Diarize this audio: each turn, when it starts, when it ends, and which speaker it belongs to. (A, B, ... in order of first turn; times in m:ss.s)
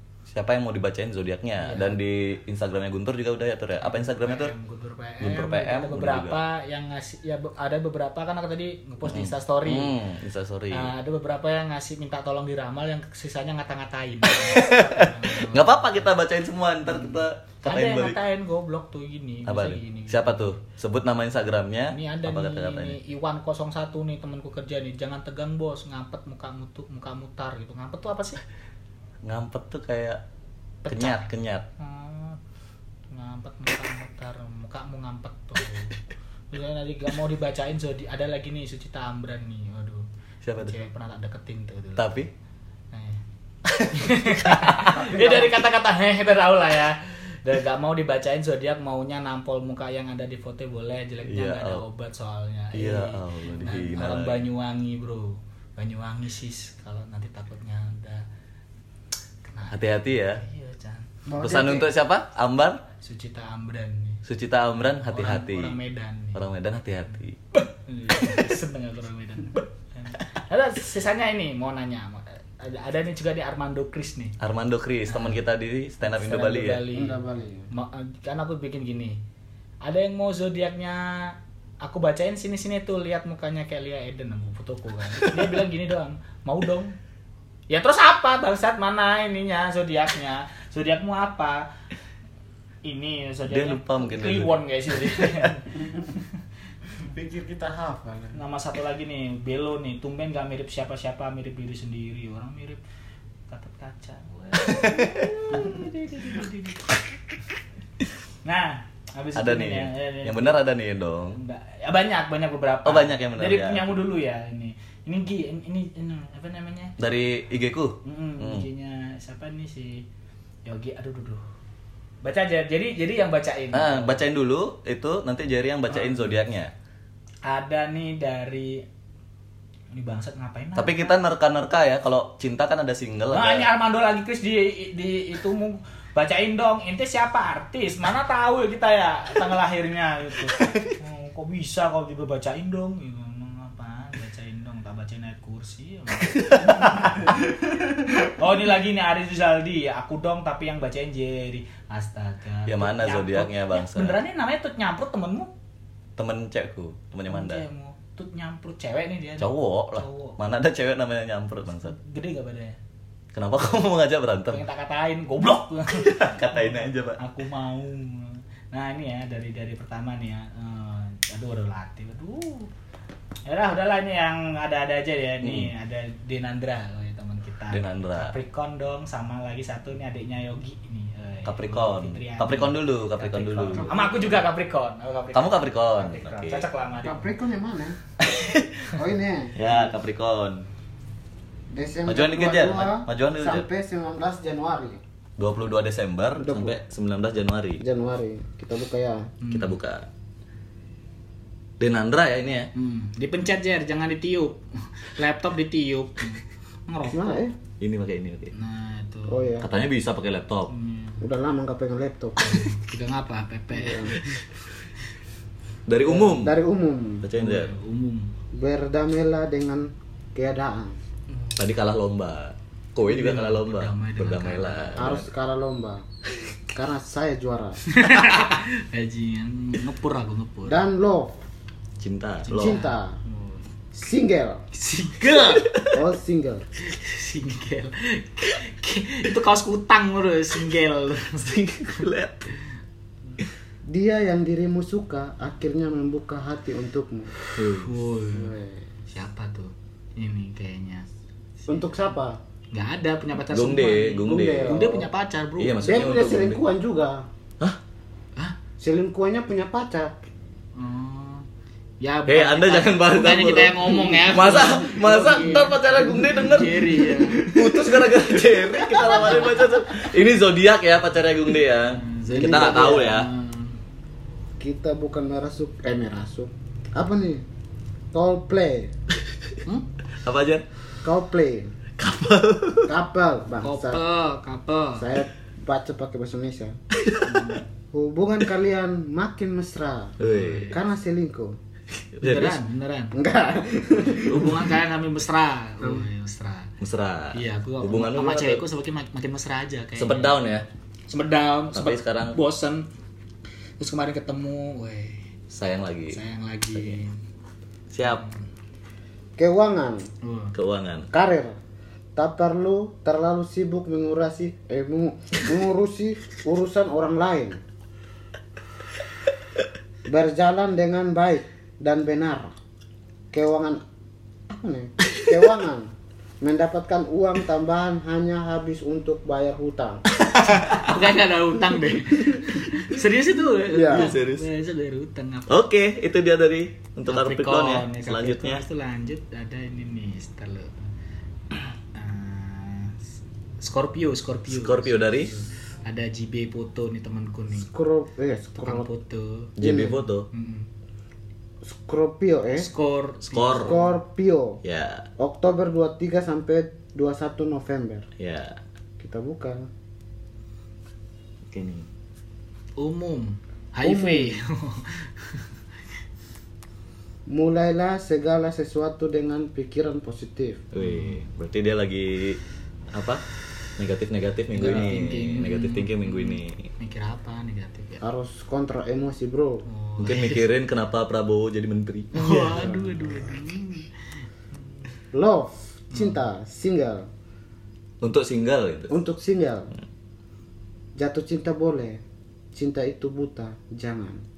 0:00.3-0:04.5 A
0:01.6-0:02.0 B
0:03.8-0:10.0 B
0:05.2-0:06.4 A
0:09.0-0:10.9 A
0:10.7-0:16.1 B
0:14.3-0:18.2 A
0:16.8-0:20.6 B
0:19.5-0:23.0 A
0:21.9-0:28.4 B
0:29.2-0:30.2 A
0:30.8-0:31.2 B
0:30.9-0:31.6 A
0:31.8-0:32.4 B
0:33.1-0:36.0 B
0:36.5-0:42.2 B
0:40.4-0:40.8 A
0:42.0-0:42.3 A
0:42.9-0:43.2 B
0:43.6-0:45.1 A
0:43.9-0:58.2 B
0:44.8-0:45.6 C
0:51.2-0:51.8 A
0:52.7-0:54.5 A
0:59.5-1:01.1 B
0:59.7-1:00.4 A
1:01.2-1:01.9 C
1:01.4-1:02.8 A
1:03.0-1:04.2 B
1:04.2-1:05.8 A
1:05.0-1:06.4 B
1:06.3-1:07.4 A
1:07.1-1:14.4 B
1:14.4-1:16.8 A
1:15.1-1:15.4 B
1:16.0-1:19.2 B
1:16.9-1:17.7 C
1:19.8-1:26.9 B
1:27.7-1:31.7 B
1:32.8-1:36.3 B
1:33.5-1:34.6 A
1:35.2-1:35.5 A
1:37.0-1:38.4 C
1:38.3-1:42.8 B
1:43.5-1:47.0 B
1:44.8-1:45.6 A
1:48.4-1:50.6 B
1:49.3-1:51.4 A
1:51.3-1:57.0 B
1:52.8-1:54.0 A
1:57.0-1:58.7 A
1:58.0-2:00.0 B
2:00.6-2:01.4 B
2:02.2-2:04.2 B
2:03.7-2:06.7 A
2:05.9-2:06.2 B
2:07.4-2:08.8 B
2:09.9-2:11.2 B
2:10.8-2:13.7 A
2:13.3-2:35.5 B
2:20.5-2:20.9 A
2:26.2-2:27.2 A
2:32.7-2:34.2 A
2:36.2-2:37.6 A
2:37.3-2:40.4 B
2:39.4-2:41.9 A
2:41.8-2:42.8 B
2:43.3-2:44.6 A
2:44.5-2:52.7 B
2:45.9-2:47.2 A
2:53.4-3:07.3 B
2:55.4-2:55.7 A
2:57.7-2:58.3 A
3:01.4-3:03.9 A
3:03.7-3:04.4 C
3:05.3-3:06.7 A
3:07.0-3:08.0 C
3:08.2-3:08.9 A
3:08.9-3:09.9 C
3:09.6-3:10.6 A
3:11.7-3:15.0 C
3:12.1-3:13.6 A
3:15.4-3:17.8 A
3:16.4-3:16.8 C
3:17.8-3:19.3 C
3:19.4-3:19.8 B
3:19.5-3:20.0 A
3:21.8-3:22.7 A
3:22.7-3:27.4 B
3:27.0-3:27.6 C
3:27.8-3:28.5 A
3:28.5-3:29.6 B
3:29.3-3:29.7 C
3:29.6-3:30.7 A
3:30.7-3:31.2 B
3:31.2-3:32.6 C
3:32.4-3:34.7 B
3:33.7-3:34.2 C
3:35.9-3:36.6 A
3:36.0-3:37.3 C
3:37.2-3:37.7 A
3:37.3-3:38.3 B
3:38.5-3:41.0 C
3:41.3-3:41.6 B
3:41.6-3:45.2 A
3:43.0-3:45.2 B
3:45.0-3:46.0 C
3:46.7-3:47.8 C
3:47.9-3:50.8 B
3:50.6-3:51.4 C
3:52.0-3:52.8 A
3:52.4-3:53.7 B
3:52.5-3:53.2 C
3:53.9-3:54.6 C
3:54.7-3:55.8 B
3:55.5-3:56.0 A
3:55.8-3:56.6 C
3:56.8-4:01.5 B
4:01.3-4:02.4 A
4:03.9-4:07.3 C
4:07.6-4:07.9 A
4:07.6-4:08.5 B
4:08.3-4:08.9 C
4:09.1-4:11.1 B
4:11.6-4:11.9 B
4:11.7-4:12.4 C
4:12.7-4:16.1 B
4:13.5-4:14.9 A
4:14.2-4:15.1 C
4:15.6-4:16.6 A
4:15.8-4:17.3 C
4:18.8-4:20.1 C
4:20.8-4:21.5 B
4:22.0-4:27.9 B
4:22.3-4:33.3 A
4:24.0-4:25.5 C
4:26.0-4:26.3 C
4:28.7-4:29.1 C
4:28.9-4:29.8 B
4:31.9-4:33.8 B
4:32.3-4:33.2 C
4:34.6-4:37.4 C
4:38.1-4:38.9 C
4:40.2-4:40.6 A
4:41.0-4:41.7 C
4:42.0-4:42.9 A
4:42.9-4:44.0 C
4:43.6-4:45.1 B
4:45.0-4:46.8 C
4:46.9-4:47.6 A
4:47.2-4:47.6 B
4:47.9-4:50.2 C
4:50.2-4:50.7 A
4:50.2-4:50.8 B
4:50.7-4:51.6 C
4:52.1-4:52.6 A
4:52.2-4:53.2 B
4:53.1-4:54.5 C
4:54.1-4:56.7 B
4:54.3-4:54.7 A
4:56.8-4:58.6 A
4:57.3-5:00.4 B
5:00.0-5:00.6 A
5:01.1-5:02.9 B
5:01.7-5:02.4 A
5:03.8-5:05.3 B
5:05.5-5:06.2 A
5:06.1-5:07.2 B
5:07.9-5:08.2 A
5:08.0-5:08.4 B
5:09.4-5:10.1 C
5:10.2-5:10.5 B
5:10.5-5:11.1 A
5:11.1-5:11.6 C
5:12.1-5:17.6 C
5:20.1-5:22.5 C
5:23.3-5:23.8 C
5:24.5-5:25.9 C
5:26.4-5:30.0 C
5:30.2-5:31.1 A
5:30.4-5:35.7 B
5:32.1-5:32.9 A
5:33.7-5:34.1 C
5:33.8-5:34.4 A
5:35.5-5:38.6 A
5:37.1-5:40.8 B
5:41.9-5:43.0 B
5:43.6-5:47.7 B
5:44.5-5:45.3 A
5:47.6-5:48.9 C
5:48.5-5:49.5 B
5:49.6-5:50.3 A
5:49.6-5:50.0 C
5:50.3-5:50.7 B
5:51.6-5:52.7 C
5:52.6-5:54.0 B
5:53.3-5:53.8 A
5:53.6-5:54.6 C
5:54.6-5:55.1 A
5:55.2-5:58.1 C
5:58.2-5:58.6 A
5:59.0-5:59.7 C
6:01.5-6:01.9 A
6:02.8-6:05.5 B
6:03.8-6:04.4 C
6:07.3-6:10.6 C
6:10.7-6:12.4 A
6:10.8-6:11.2 B
6:12.9-6:13.2 A
6:13.8-6:16.7 A
6:14.5-6:18.0 B
6:18.0-6:19.6 C
6:19.6-6:20.4 B
6:20.0-6:22.2 A
6:22.1-6:23.9 B
6:22.1-6:23.4 C
6:24.5-6:24.9 B
6:25.1-6:27.1 C
6:25.9-6:26.2 B
6:28.0-6:28.9 A
6:28.9-6:29.7 C
6:31.0-6:32.0 C
6:32.5-6:34.2 C